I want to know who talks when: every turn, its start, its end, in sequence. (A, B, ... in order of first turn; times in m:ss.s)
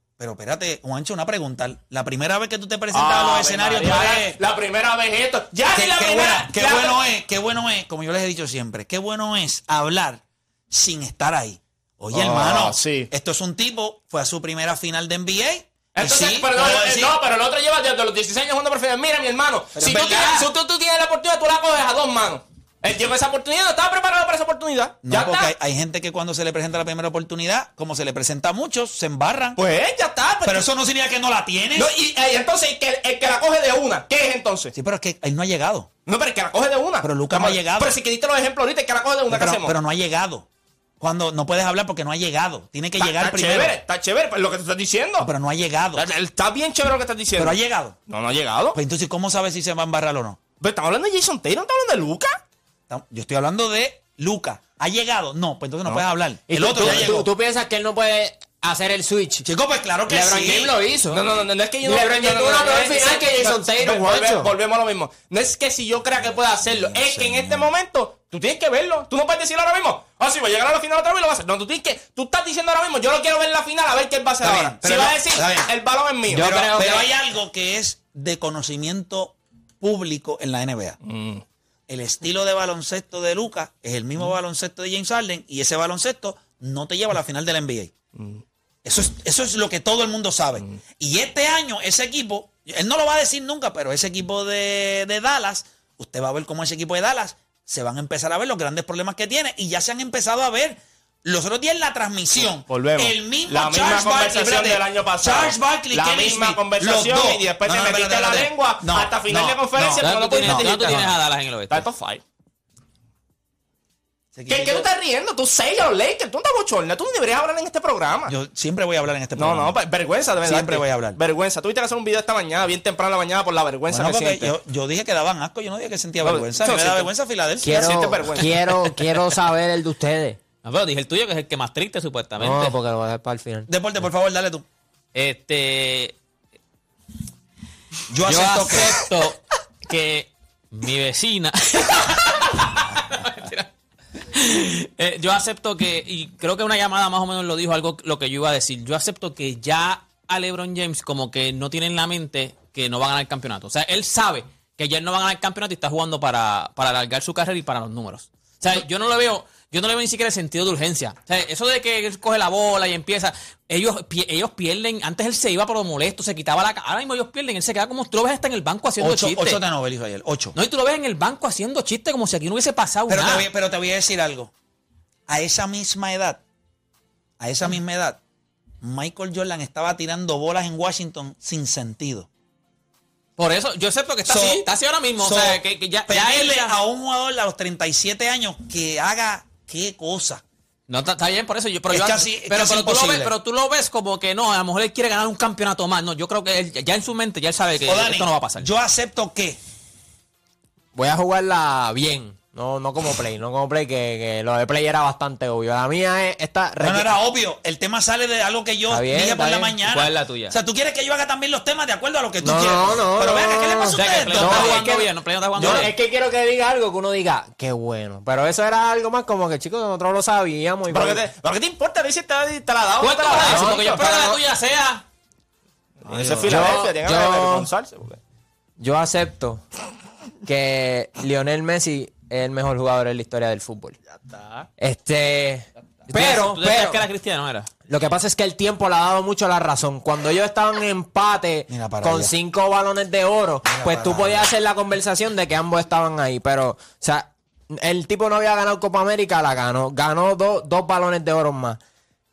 0:00.2-0:04.4 A
0:02.9-0:07.0 B
0:05.7-0:17.2 A
0:12.1-0:13.1 B
0:15.9-0:25.5 B
0:19.8-0:20.5 A
0:25.0-0:29.6 A
0:29.6-0:30.7 B
0:30.4-0:31.9 A
0:31.8-0:34.7 B
0:34.7-0:35.9 A
0:36.0-0:39.7 B
0:37.0-0:38.0 A
0:39.3-0:40.4 A
0:41.0-0:43.8 A
0:43.0-0:45.3 B
0:45.2-0:46.1 A
0:45.9-0:48.8 B
0:47.4-0:48.0 A
0:48.7-0:50.4 A
0:50.6-0:52.4 B
0:52.9-0:57.3 A
0:56.5-0:59.4 C
0:56.8-0:57.1 B
0:59.4-1:00.7 A
1:00.1-1:01.2 C
1:01.1-1:17.1 B
1:01.8-1:04.5 C
1:06.6-1:07.7 A
1:14.4-1:15.7 A
1:16.2-1:21.0 A
1:21.0-1:21.4 B
1:21.9-1:27.9 A
1:28.1-1:28.4 B
1:28.8-1:50.9 A
1:42.6-1:51.2 B
1:50.0-1:51.9 D
1:51.7-1:52.2 B
1:54.3-1:54.9 A
1:54.5-1:58.3 B
1:58.3-1:59.8 A
1:59.3-2:04.5 B
2:00.4-2:01.2 A
2:03.9-2:08.3 A
2:06.2-2:09.0 B
2:07.6-2:10.4 C
2:10.6-2:12.7 D
2:12.4-2:13.7 C
2:13.7-2:14.6 A
2:15.1-2:16.2 D
2:18.1-2:19.0 A
2:18.2-2:23.7 D
2:24.3-2:49.6 D
2:49.0-2:50.6 A
2:50.6-2:53.4 D
2:53.1-2:54.5 A
2:55.3-2:56.4 A
2:57.4-2:58.2 A
2:58.8-3:02.3 A
3:03.4-3:06.8 D
3:04.3-3:04.7 A
3:05.2-3:10.4 A
3:10.9-3:18.7 D
3:11.9-3:13.3 A
3:17.8-3:19.6 A
3:20.9-3:27.2 C
3:26.8-3:35.0 A
3:28.9-3:29.7 C
3:29.9-3:30.6 D
3:32.4-3:41.3 C
3:33.9-3:35.9 D
3:35.6-3:35.9 A
3:40.9-3:44.1 B
3:43.0-3:45.0 D
3:43.4-3:44.4 C
3:46.0-3:48.2 B
3:46.4-3:47.7 C
3:48.8-3:49.6 C
3:50.4-3:54.0 C
3:54.3-3:54.6 B
3:54.8-3:57.0 C
3:56.1-3:57.7 D
3:57.9-4:11.8 C
4:01.7-4:02.3 A
4:03.6-4:04.5 A